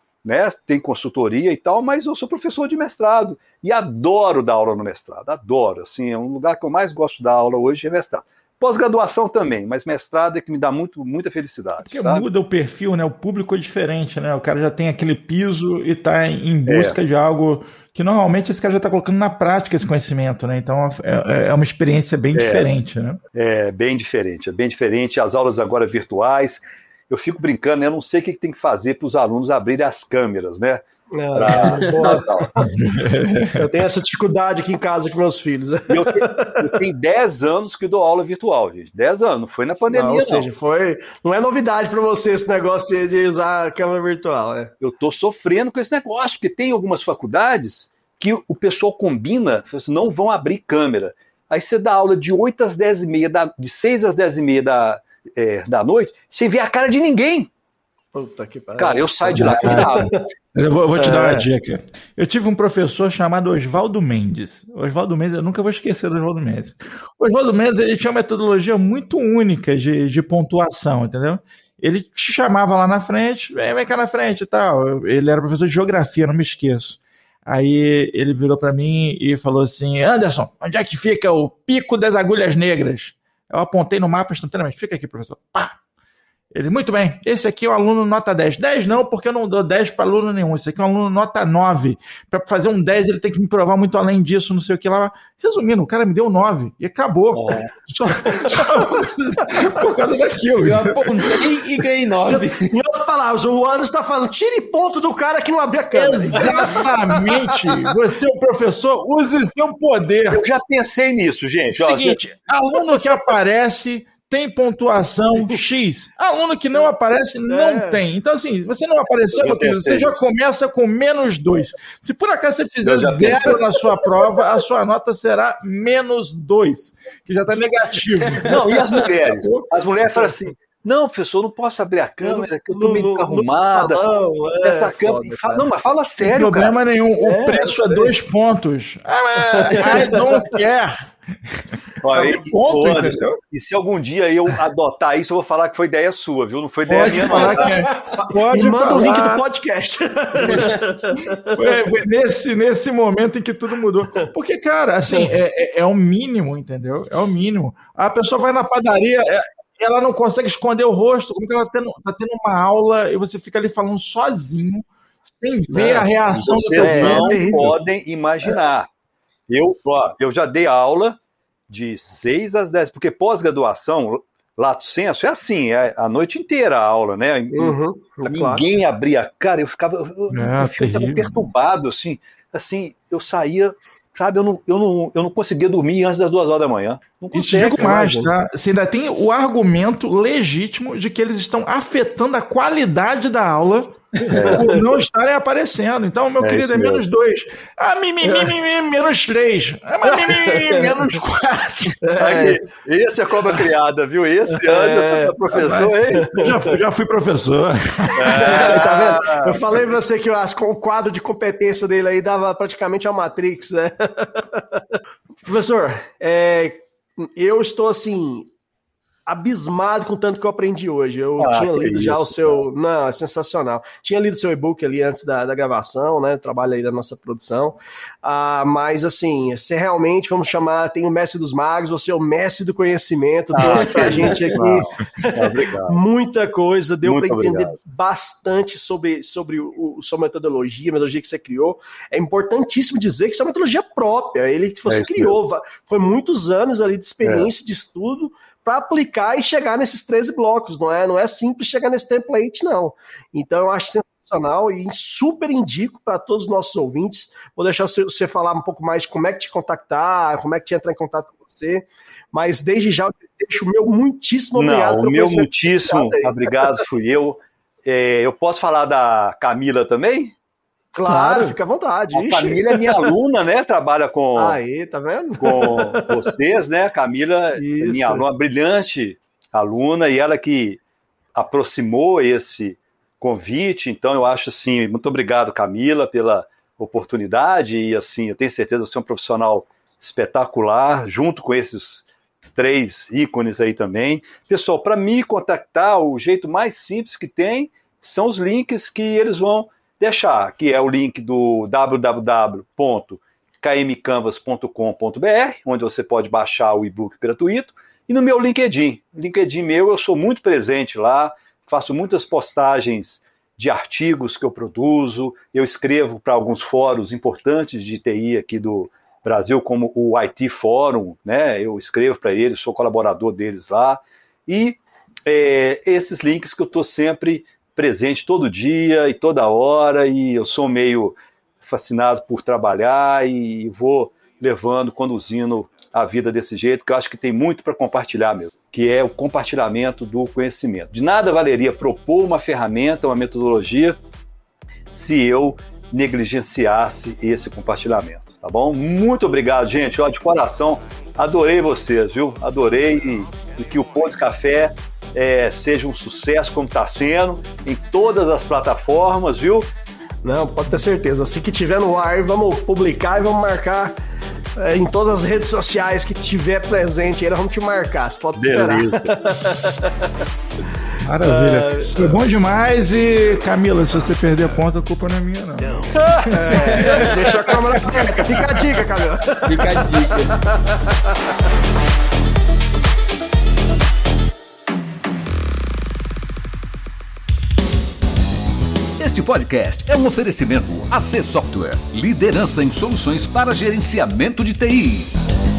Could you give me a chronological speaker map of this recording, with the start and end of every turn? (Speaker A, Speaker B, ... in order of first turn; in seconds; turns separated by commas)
Speaker A: 0.2-12.3, Speaker B: 11.8-23.2, Speaker A: 16.7-17.0, Speaker A: 22.3-22.7, Speaker A: 23.3-32.5, Speaker C: 31.1-32.7, Speaker B: 32.6-33.5, Speaker C: 33.5-36.8, Speaker A: 35.9-40.5, Speaker C: 39.8-44.7, Speaker A: 44.8-57.5, Speaker C: 58.1-60.2, Speaker A: 58.8-60.1, Speaker B: 59.3-85.8, Speaker C: 61.0-61.5, Speaker B: 86.5-101.5, Speaker A: 97.3-97.7, Speaker D: 100.6-102.7, Speaker C: 102.2-107.4, Speaker B: 105.9-110.5, Speaker A: 110.3-112.2, Speaker B: 111.7-129.0, Speaker C: 117.5-118.0, Speaker A: 119.4-120.2, Speaker A: 122.8-123.6, Speaker A: 128.4-134.0, Speaker C: 132.2-135.7, Speaker A: 134.6-136.7, Speaker B: 136.2-141.6, Speaker C: 137.2-138.1, Speaker C: 139.5-140.6, Speaker A: 142.0-147.9, Speaker B: 142.1-143.4, Speaker B: 146.9-149.4, Speaker C: 147.4-151.5, Speaker B: 151.5-167.4, Speaker C: 155.1-155.3, Speaker C: 165.7-166.1, Speaker A: 166.3-168.9, Speaker C: 166.8-167.8, Speaker A: 169.5-171.2, Speaker A: 171.7-188.0, Speaker C: 177.5-178.6, Speaker B: 180.3-181.4, Speaker B: 187.3-202.0, Speaker C: 187.8-188.3, Speaker A: 194.3-194.7, Speaker C: 194.4-194.8, Speaker A: 196.4-197.1, Speaker C: 198.2-198.5, Speaker C: 200.1-200.9, Speaker C: 202.0-202.6, Speaker A: 202.2-206.3, Speaker C: 204.5-205.3, Speaker B: 205.5-208.7, Speaker C: 206.2-206.7, Speaker C: 208.2-218.5, Speaker A: 208.2-209.6, Speaker C: 219.3-266.8, Speaker A: 221.4-222.6, Speaker A: 233.5-236.0, Speaker A: 237.0-237.7, Speaker A: 244.9-245.4, Speaker A: 247.2-247.5, Speaker A: 264.6-270.3, Speaker C: 270.9-273.1, Speaker A: 271.1-271.6, Speaker A: 272.1-274.6, Speaker C: 274.4-276.3, Speaker A: 275.4-280.8, Speaker C: 277.6-278.2, Speaker A: 281.4-344.0, Speaker A: 344.9-359.7, Speaker C: 360.2-363.9, Speaker C: 364.6-370.1, Speaker A: 368.4-369.1, Speaker B: 371.0-377.1, Speaker C: 371.2-372.2, Speaker A: 375.9-376.3, Speaker C: 376.3-380.2, Speaker B: 378.0-378.3, Speaker D: 379.4-380.4, Speaker E: 389.0-395.1